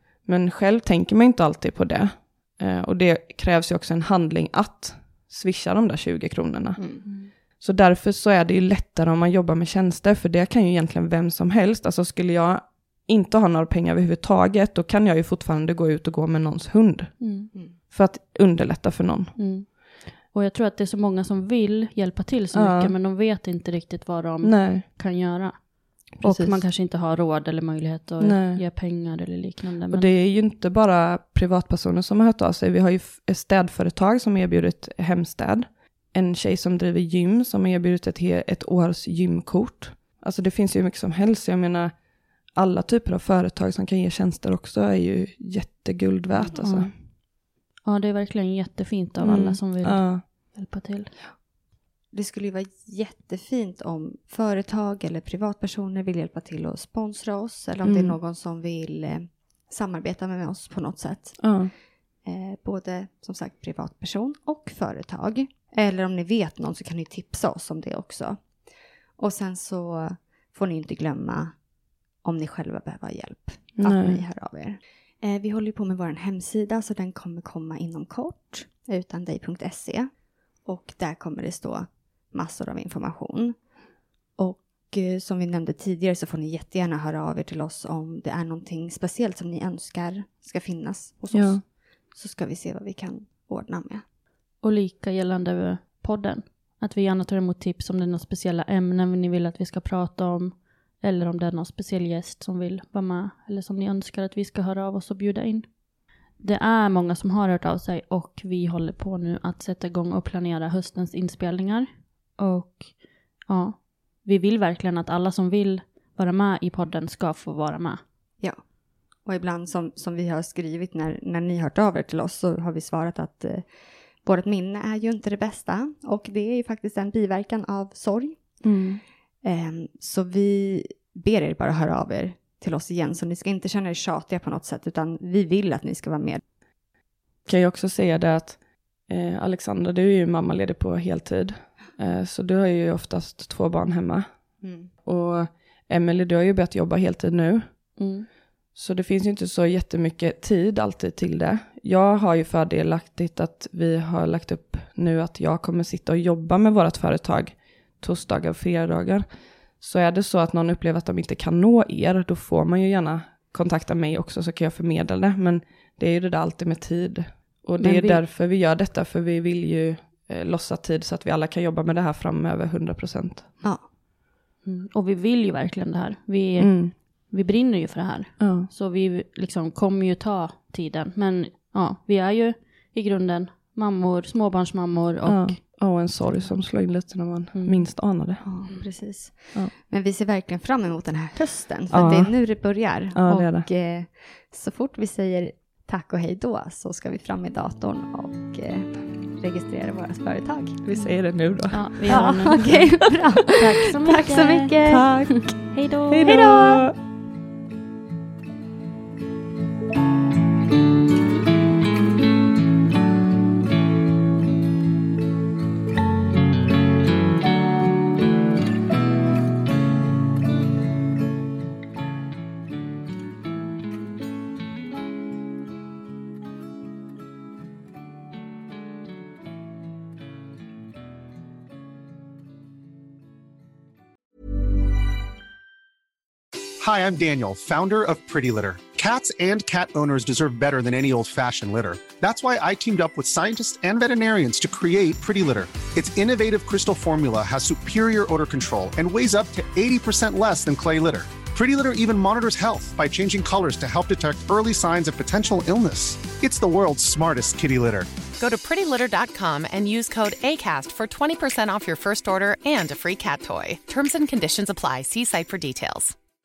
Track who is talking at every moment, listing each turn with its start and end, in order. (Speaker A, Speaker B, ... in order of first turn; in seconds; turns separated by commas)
Speaker A: 0.2-6.8, Speaker B: 6.8-7.1, Speaker C: 7.0-7.3, Speaker A: 7.6-17.2, Speaker C: 17.2-17.5, Speaker B: 17.5-17.8, Speaker A: 17.9-19.3, Speaker C: 19.4-30.1, Speaker A: 22.5-22.9, Speaker A: 24.4-24.8, Speaker A: 26.2-26.6, Speaker A: 28.2-28.6, Speaker A: 29.9-42.0, Speaker A: 42.5-46.9, Speaker B: 46.3-46.6, Speaker C: 46.5-47.1, Speaker C: 47.8-51.1, Speaker A: 49.2-50.2, Speaker B: 52.1-61.6, Speaker A: 57.8-58.1, Speaker A: 61.4-61.7, Speaker B: 62.2-71.6, Speaker B: 72.2-83.7, Speaker A: 73.8-74.2, Speaker B: 84.3-94.0, Speaker A: 91.3-91.6, Speaker C: 94.6-105.8, Speaker C: 106.3-118.0, Speaker B: 119.2-128.7, Speaker A: 128.6-129.0, Speaker B: 129.4-136.4, Speaker A: 137.4-144.3, Speaker B: 144.6-144.9, Speaker A: 145.0-147.9, Speaker C: 148.0-148.3, Speaker A: 148.7-159.2, Speaker A: 159.8-173.5, Speaker C: 167.8-168.2, Speaker B: 173.6-173.9, Speaker C: 174.6-185.8, Speaker A: 176.6-176.9, Speaker A: 178.4-178.7, Speaker A: 185.2-188.4, Speaker C: 187.5-187.9, Speaker B: 188.4-201.1, Speaker A: 191.9-193.7, Speaker A: 200.9-203.0, Speaker C: 201.7-203.0, Speaker B: 202.1-205.5, Speaker C: 203.5-204.8, Speaker A: 204.8-205.4, Speaker C: 205.7-206.8, Speaker A: 206.1-206.9, Speaker D: 236.8-258.1, Speaker E: 258.4-266.1